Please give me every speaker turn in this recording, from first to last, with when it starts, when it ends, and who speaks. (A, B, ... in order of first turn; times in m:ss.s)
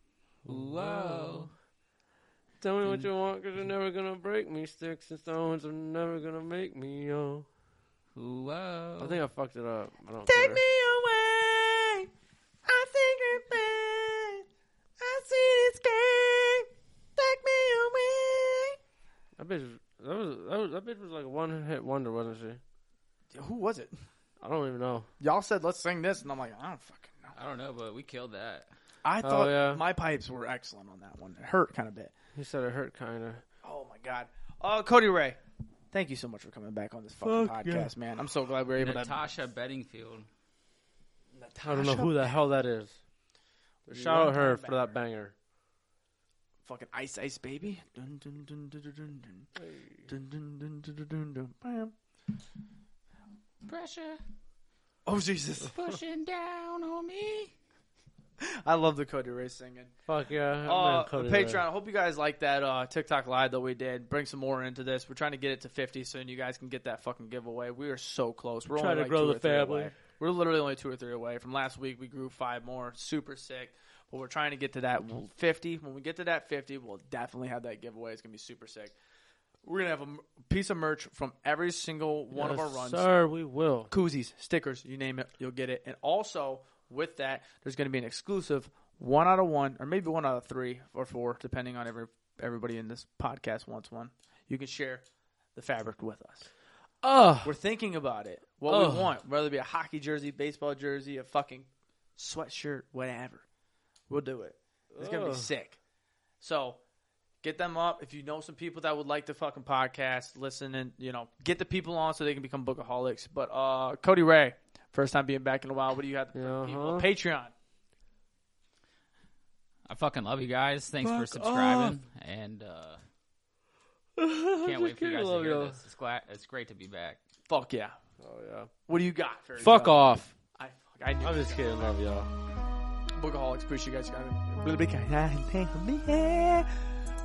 0:00.4-0:01.5 A
0:00.5-0:01.5 B
0:02.6-0:07.5 A
0:02.8-0:03.1 B
0:08.2-0:09.2 B
0:09.0-0:10.6 A
0:10.3-0:12.1 C
0:12.7-0:14.4 C
0:15.0-0:18.8 C
0:19.4-0:22.6 A
0:23.3-0:23.9 C
0:24.4-0:25.1 A
0:25.2-0:27.3 C
0:27.3-0:28.7 B
0:29.0-0:32.1 C
0:29.2-0:29.8 A
0:32.4-0:33.4 A
0:33.6-0:35.4 C
0:35.9-0:39.2 C
0:37.2-0:37.9 A
0:38.8-0:40.3 B
0:41.3-0:42.3 C
0:41.6-0:43.0 A
0:43.9-0:45.3 A
0:43.9-0:45.0 C
0:46.6-0:49.5 C
0:50.1-0:51.9 C
0:53.6-0:54.2 B
0:55.1-0:55.8 C
0:55.7-0:57.5 B
0:58.4-0:59.9 C
1:00.1-1:01.6 A
1:00.6-1:18.9 C
1:08.8-1:10.0 A
1:19.6-1:23.1 C
1:22.3-1:23.9 A
1:23.9-1:35.0 C
1:35.6-1:36.5 C
1:37.0-1:37.6 A
1:37.4-1:43.4 C
1:38.7-1:39.1 A
1:44.1-1:45.8 C
1:44.9-1:45.5 A
1:46.4-1:46.8 C
1:47.4-1:57.5 C
1:56.3-1:57.1 A
1:59.9-2:03.0 B
2:01.0-2:02.0 C
2:04.2-2:05.8 A
2:04.6-2:07.2 B
2:07.5-2:08.0 C
2:08.2-2:08.7 A
2:08.9-2:10.0 C
2:09.6-2:10.3 A
2:10.6-2:11.7 C
2:11.2-2:12.3 A
2:13.2-2:16.7 C